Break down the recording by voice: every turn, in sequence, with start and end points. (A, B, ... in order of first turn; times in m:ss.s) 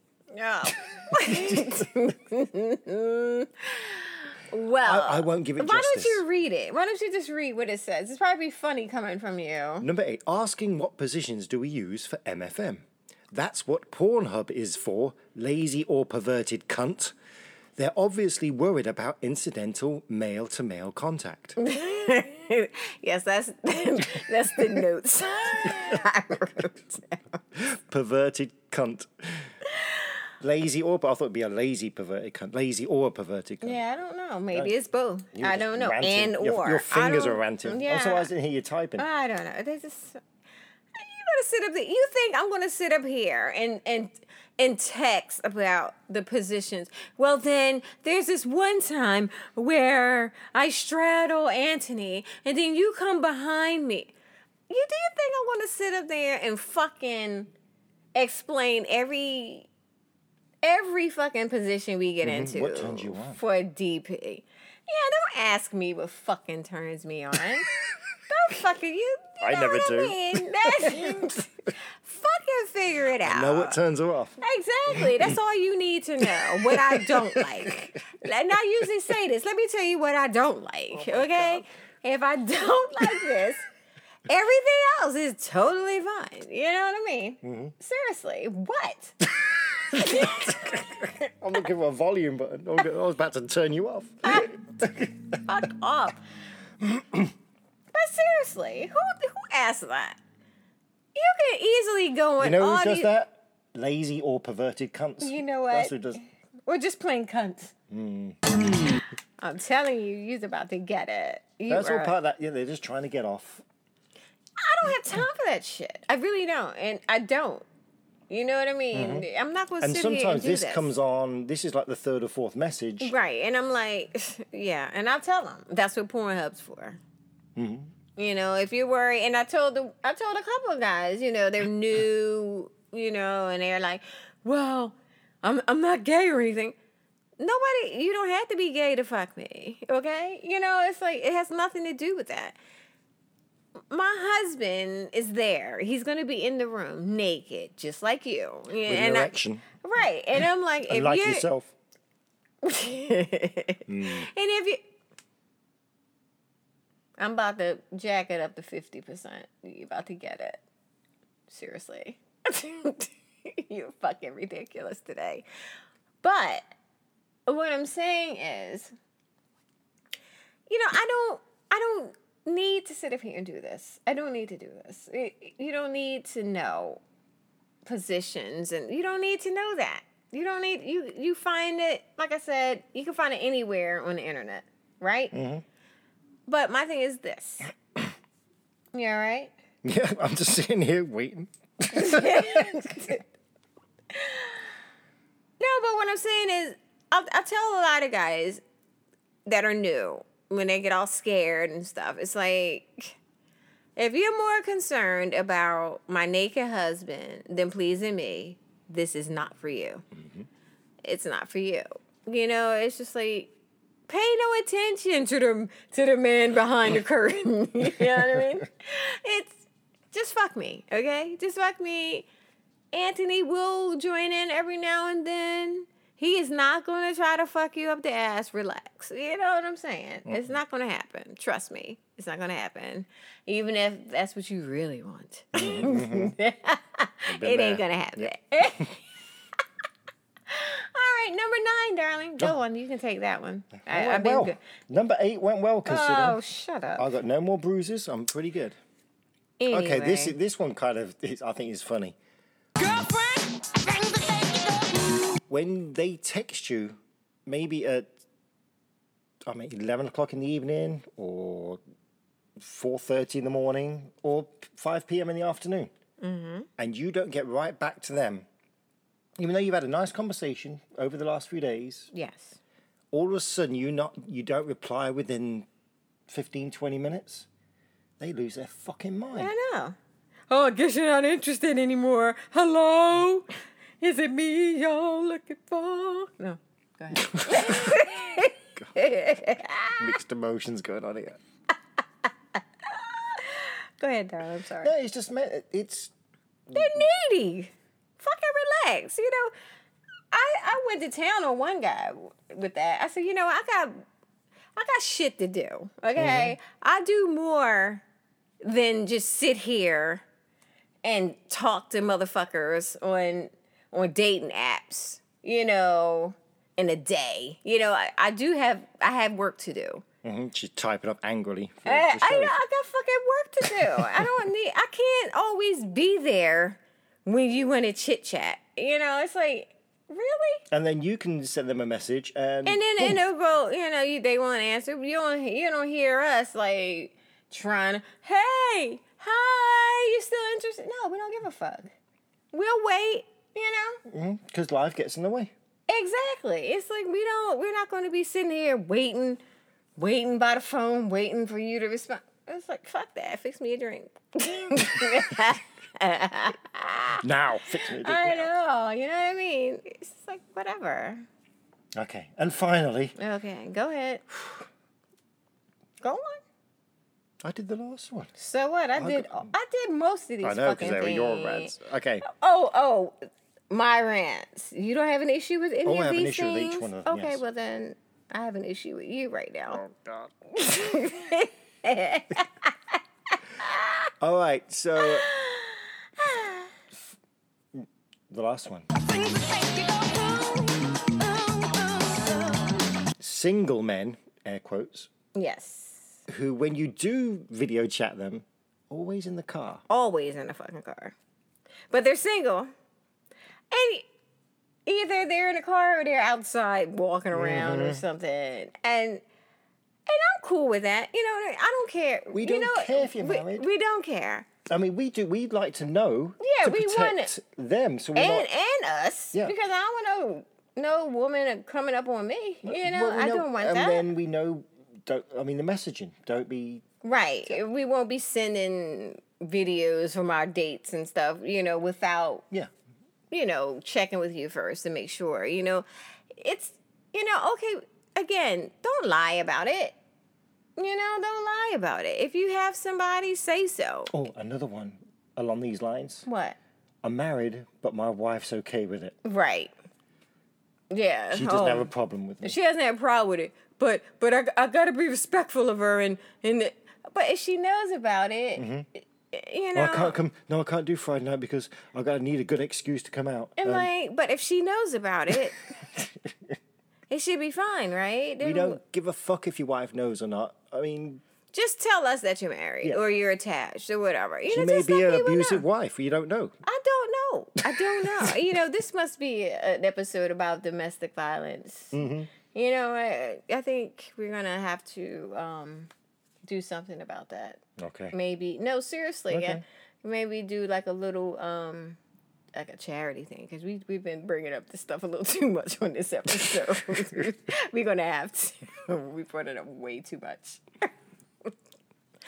0:00.3-0:09.9 A
0:01.0-0:01.9 B
0:04.8-0:06.2 B
0:09.8-0:17.1 B
0:17.8-0:21.6 B
0:21.6-0:27.2 A
0:25.6-0:26.0 B
0:27.5-0:29.5 B
0:30.4-0:33.8 B
0:33.6-0:38.3 A
0:35.3-0:39.0 B
0:39.0-0:40.2 A
0:40.9-0:54.1 A
0:54.7-0:57.5 A
0:58.1-0:59.7 A
1:00.6-1:07.7 A
1:02.2-1:03.4 B
1:08.3-1:13.8 A
1:09.4-1:11.4 B
1:13.2-1:15.4 B
1:14.4-1:23.6 A
1:16.2-1:17.9 B
1:20.9-1:21.6 B
1:23.0-1:23.3 B
1:24.3-1:29.3 A
1:27.4-1:27.7 B
1:29.4-1:35.2 B
1:29.8-1:31.1 A
1:34.2-1:34.6 A
1:35.4-1:36.2 A
1:36.8-1:37.3 B
1:37.9-1:40.2 A
1:41.1-1:43.1 A
1:42.4-1:46.2 B
1:45.2-1:47.7 A
1:47.9-1:48.4 B
1:49.4-1:52.1 A
1:51.7-1:53.6 B
1:54.6-1:57.6 A
1:58.3-2:00.9 A
1:58.9-1:59.2 B
1:59.8-2:03.1 B
2:03.0-2:07.0 A
2:07.6-2:07.9 B
2:08.2-2:16.8 A
2:17.4-2:22.6 A
2:23.9-2:31.5 A
2:28.8-2:29.6 B
2:30.4-2:31.7 B
2:32.6-2:34.8 A
2:33.9-2:34.3 B
2:37.2-2:40.6 A
2:41.5-2:45.4 A
2:46.2-2:46.6 A
2:47.5-2:48.9 A
2:50.7-2:57.0 A
2:57.8-3:05.3 A
3:05.3-3:05.6 B
3:06.5-3:07.7 A
3:08.9-3:09.5 A
3:09.8-3:13.2 B
3:11.9-3:13.2 A
3:14.1-3:14.7 A
3:15.6-3:18.6 A
3:19.4-3:23.2 A
3:24.0-3:30.0 A
3:30.1-3:30.5 B
3:31.0-3:33.5 A
3:34.1-3:42.3 A
3:42.9-3:59.0 A
3:50.2-3:50.5 B
3:55.5-3:56.4 B
3:57.3-3:58.9 B
4:00.5-4:04.6 A
4:03.8-4:06.4 B
4:05.8-4:07.1 A
4:07.0-4:08.8 B
4:09.6-4:10.4 A
4:09.7-4:12.2 B
4:12.9-4:13.3 A
4:15.5-4:18.1 B
4:19.4-4:21.8 B
4:22.6-4:25.9 B
4:26.2-4:26.7 A
4:26.8-4:28.5 B
4:29.4-4:32.1 B
4:32.1-4:32.6 A
4:33.1-4:35.7 B
4:36.3-4:37.5 B
4:38.2-4:39.5 B
4:39.3-4:40.0 A
4:40.5-4:50.1 A
4:47.2-4:48.2 B
4:50.0-4:51.4 B
4:52.8-4:54.9 A
4:54.8-4:56.1 B
4:56.7-4:57.0 B
4:56.7-4:59.5 A
5:00.3-5:04.0 A
5:04.8-5:08.0 A
5:06.2-5:06.6 B
5:08.6-5:10.2 A
5:11.0-5:20.0 A
5:20.2-5:22.6 B
5:21.8-5:30.6 A
5:23.6-5:24.4 B
5:30.7-5:33.2 B
5:32.6-5:41.9 A
5:42.5-5:44.0 A
5:44.0-5:45.5 B
5:45.9-5:49.4 A
5:50.0-5:57.2 A
5:57.2-5:58.5 B
5:57.8-6:01.3 A
6:01.9-6:03.2 B
6:03.2-6:04.2 A
6:06.0-6:06.4 A
6:07.4-6:08.3 B
6:08.4-6:19.8 A
6:09.0-6:09.5 B
6:10.4-6:12.2 B
6:15.8-6:17.4 B
6:19.7-6:20.3 B
6:20.5-6:23.0 A
6:23.6-6:24.1 A
6:24.2-6:25.3 B
6:25.0-6:26.7 A
6:27.7-6:28.9 B
6:29.0-6:32.9 A
6:33.2-6:35.1 B
6:35.3-6:36.2 A
6:36.3-6:39.8 B
6:39.9-6:41.1 A
6:41.9-6:42.7 A
6:43.7-6:44.1 A
6:44.8-6:49.2 A
6:47.3-6:48.0 B
6:50.1-6:54.5 A
6:52.3-6:53.7 B
6:54.7-6:58.5 B
6:56.4-6:57.3 A
6:58.2-7:04.0 A
7:02.6-7:06.8 B
7:07.0-7:12.4 A
7:13.3-7:20.0 A
7:20.8-7:24.1 A
7:24.1-7:26.2 B
7:26.2-7:26.6 A
7:27.0-7:29.2 B
7:29.2-7:29.7 A
7:30.9-7:31.9 A
7:31.3-7:32.6 B
7:32.4-7:38.6 A
7:38.6-7:38.9 B
7:39.3-7:40.2 A
7:39.7-7:43.9 B
7:43.6-7:45.7 A
7:45.3-7:46.6 B
7:47.1-7:48.8 A
7:48.4-7:51.2 B
7:51.5-7:55.6 A
7:54.5-7:56.6 B
7:56.6-8:05.9 A
7:57.7-7:58.4 B
8:01.9-8:02.3 B
8:06.4-8:07.6 A
8:07.8-8:08.2 B
8:08.1-8:12.0 A
8:09.3-8:09.6 B
8:12.5-8:20.9 A